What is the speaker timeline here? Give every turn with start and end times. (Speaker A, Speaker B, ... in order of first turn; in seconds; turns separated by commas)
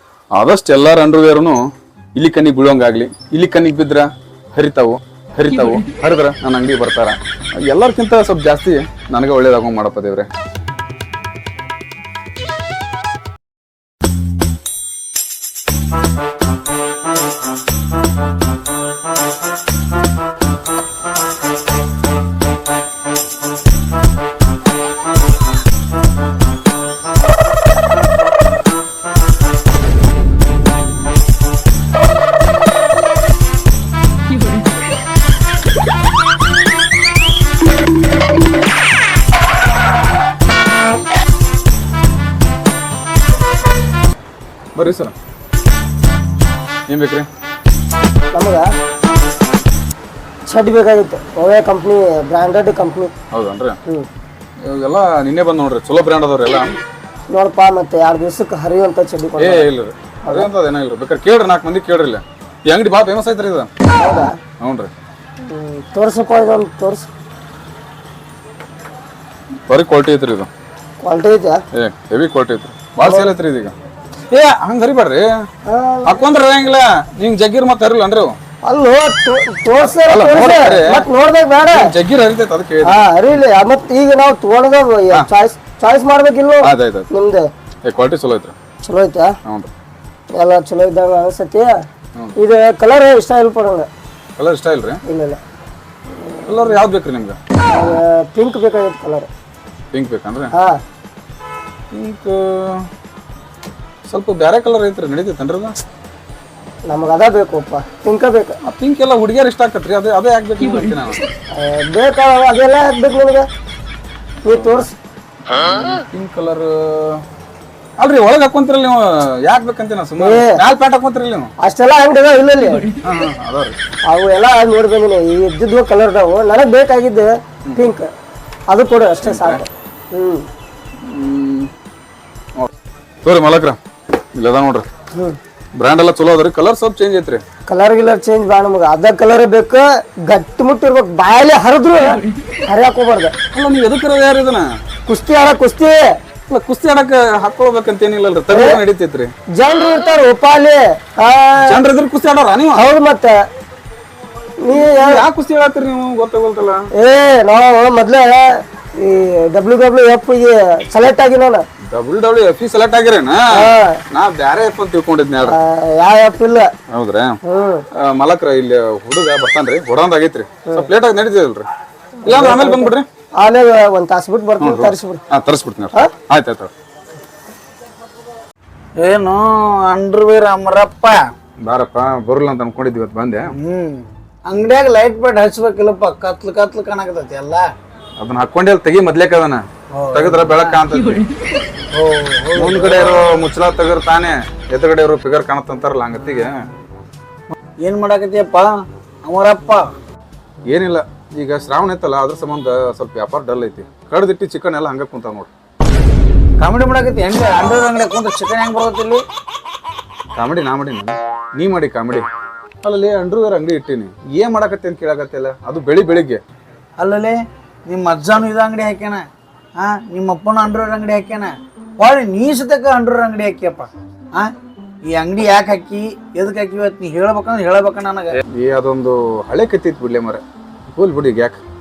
Speaker A: 0.3-1.6, Speaker A: 2.1-10.3, Speaker A: 44.8-45.1, Speaker A: 46.9-47.3, Speaker B: 48.3-48.7, Speaker B: 50.5-53.1, Speaker A: 53.3-53.8, Speaker A: 54.6-56.8, Speaker B: 57.3-59.7, Speaker A: 59.4-63.7, Speaker B: 64.0-64.3, Speaker A: 64.6-64.9, Speaker B: 65.5-67.1, Speaker A: 69.7-70.5, Speaker B: 71.0-71.6, Speaker A: 71.7-73.8, Speaker B: 73.0-73.3, Speaker A: 74.3-75.3, Speaker B: 75.7-76.2, Speaker A: 76.0-78.4, Speaker B: 78.6-81.9, Speaker A: 79.8-81.1, Speaker A: 81.7-83.0, Speaker B: 82.8-87.5, Speaker A: 86.6-87.1, Speaker A: 87.8-88.5, Speaker B: 88.8-89.4, Speaker A: 89.5-89.7, Speaker B: 90.3-91.8, Speaker B: 92.4-93.9, Speaker A: 94.4-95.0, Speaker B: 95.1-95.4, Speaker B: 96.2-96.6, Speaker A: 96.5-97.4, Speaker B: 97.7-99.3, Speaker A: 99.9-100.5, Speaker B: 100.5-100.8, Speaker A: 101.9-102.9, Speaker A: 104.1-105.8, Speaker B: 106.9-108.6, Speaker A: 108.6-111.2, Speaker B: 111.5-113.5, Speaker B: 114.4-114.9, Speaker A: 114.5-114.9, Speaker A: 115.6-117.2, Speaker A: 118.0-121.5, Speaker B: 120.2-120.6, Speaker B: 121.6-122.9, Speaker A: 123.0-123.8, Speaker B: 124.1-128.1, Speaker B: 128.7-130.5, Speaker A: 129.2-129.6, Speaker A: 131.0-131.7, Speaker A: 133.2-133.8, Speaker A: 134.3-134.8, Speaker A: 135.7-137.4, Speaker B: 137.7-143.3, Speaker A: 143.5-144.7, Speaker B: 145.1-146.0, Speaker A: 146.5-149.3, Speaker B: 148.5-148.8, Speaker B: 149.6-151.8, Speaker A: 151.6-152.9, Speaker B: 152.7-153.4, Speaker B: 154.6-155.2, Speaker A: 154.7-156.8, Speaker B: 157.0-161.6, Speaker A: 161.9-165.6, Speaker B: 163.5-164.0, Speaker B: 165.4-166.7, Speaker A: 166.9-167.4, Speaker B: 167.4-167.8, Speaker A: 167.9-171.7, Speaker A: 172.2-173.1, Speaker B: 172.2-175.2, Speaker A: 174.6-176.7, Speaker C: 179.0-181.2, Speaker A: 181.6-183.5, Speaker C: 183.5-187.7, Speaker A: 188.2-191.3, Speaker C: 189.9-190.8, Speaker C: 191.9-193.4, Speaker A: 192.6-196.7, Speaker C: 197.8-198.7, Speaker C: 199.2-199.9, Speaker A: 200.7-205.5, Speaker C: 206.6-209.2, Speaker A: 210.3-212.2, Speaker A: 212.8-216.4, Speaker C: 217.0-219.2, Speaker C: 219.8-224.5, Speaker C: 225.1-228.4, Speaker A: 228.5-231.6